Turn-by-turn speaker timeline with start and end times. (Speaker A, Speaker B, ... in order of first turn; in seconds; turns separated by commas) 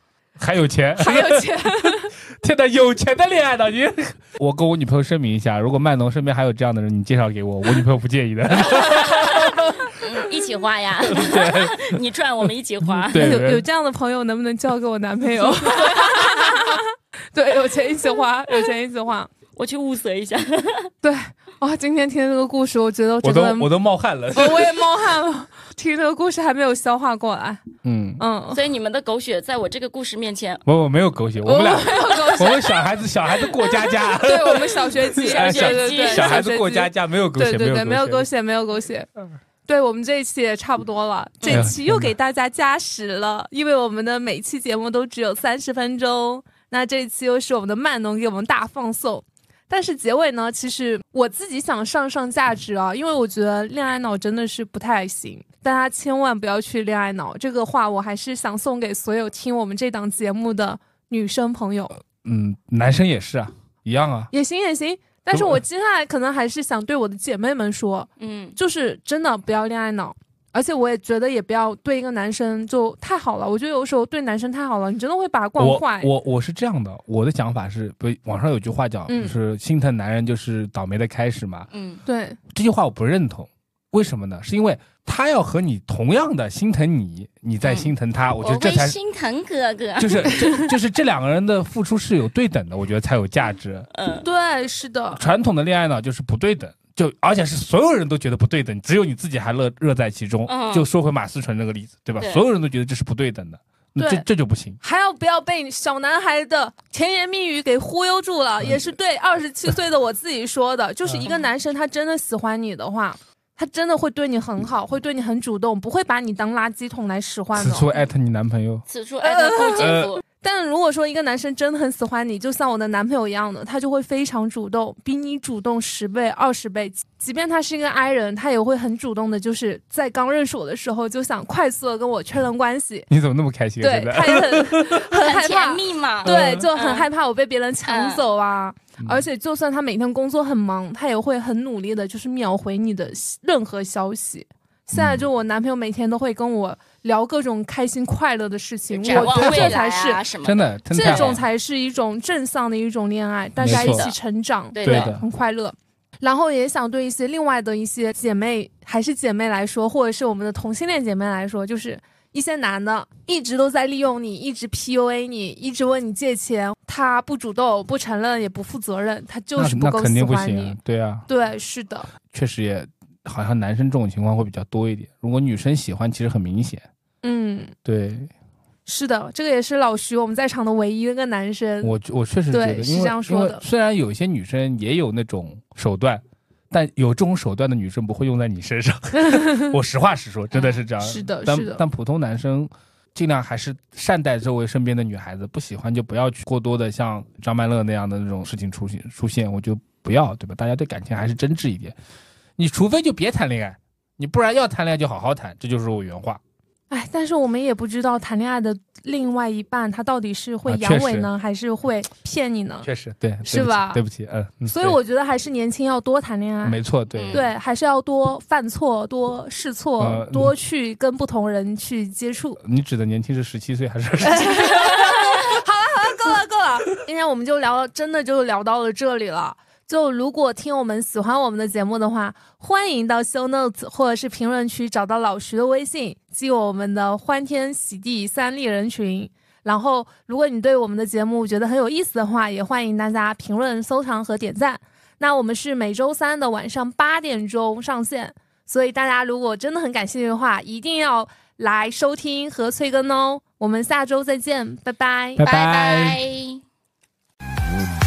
Speaker A: 0.4-9.6, Speaker B: 1.0-2.1, Speaker C: 8.8-13.3, Speaker A: 11.1-12.0, Speaker A: 12.9-13.6, Speaker B: 13.1-19.3, Speaker C: 15.4-16.7, Speaker C: 19.6-20.9, Speaker B: 21.0-23.7, Speaker A: 23.2-24.8, Speaker B: 24.3-27.6, Speaker A: 27.8-28.2, Speaker B: 28.2-28.6, Speaker C: 28.5-30.6, Speaker A: 30.7-38.3, Speaker B: 31.4-32.9, Speaker B: 34.0-39.1, Speaker C: 35.2-36.4, Speaker B: 39.7-62.0, Speaker A: 41.5-42.1, Speaker A: 62.0-64.3, Speaker B: 64.3-76.1, Speaker A: 65.3-65.6, Speaker C: 68.2-68.6, Speaker A: 75.6-81.7, Speaker B: 79.1-79.3, Speaker C: 81.7-82.0, Speaker B: 82.1-82.4, Speaker A: 82.5-89.0, Speaker C: 87.6-90.7, Speaker A: 90.0-93.9, Speaker C: 93.9-94.3, Speaker B: 94.2-95.2, Speaker A: 95.2-104.8, Speaker C: 100.5-100.9, Speaker C: 102.2-102.4, Speaker B: 104.0-104.2, Speaker B: 104.8-117.9, Speaker A: 117.6-118.8, Speaker C: 118.9-120.2, Speaker B: 119.2-133.1, Speaker A: 119.8-120.2, Speaker A: 133.1-135.0, Speaker B: 133.8-150.2, Speaker C: 135.1-137.1, Speaker A: 136.2-136.7, Speaker C: 137.8-138.2, Speaker A: 139.0-139.2, Speaker A: 144.9-145.2, Speaker C: 148.9-151.4, Speaker A: 149.1-149.8, Speaker A: 150.4-151.4, Speaker B: 150.9-172.1, Speaker A: 153.6-154.1, Speaker C: 153.7-154.2, Speaker C: 154.8-155.2, Speaker A: 154.8-155.2, Speaker A: 169.6-171.3, Speaker A: 172.3-176.8, Speaker B: 177.2-177.7, Speaker A: 177.8-178.3, Speaker B: 178.9-181.9, Speaker A: 181.8-202.0, Speaker B: 182.5-183.6, Speaker B: 189.4-189.7, Speaker C: 190.5-190.8, Speaker B: 191.0-191.8, Speaker A: 202.6-206.4, Speaker B: 206.9-212.9, Speaker A: 210.7-211.3, Speaker A: 212.8-215.0, Speaker B: 213.5-214.0, Speaker B: 214.7-216.8, Speaker A: 216.6-217.4, Speaker C: 217.1-217.4, Speaker B: 217.3-222.6, Speaker A: 220.0-220.5, Speaker A: 222.6-225.4, Speaker B: 224.2-255.4, Speaker A: 255.4-256.2, Speaker C: 255.4-256.6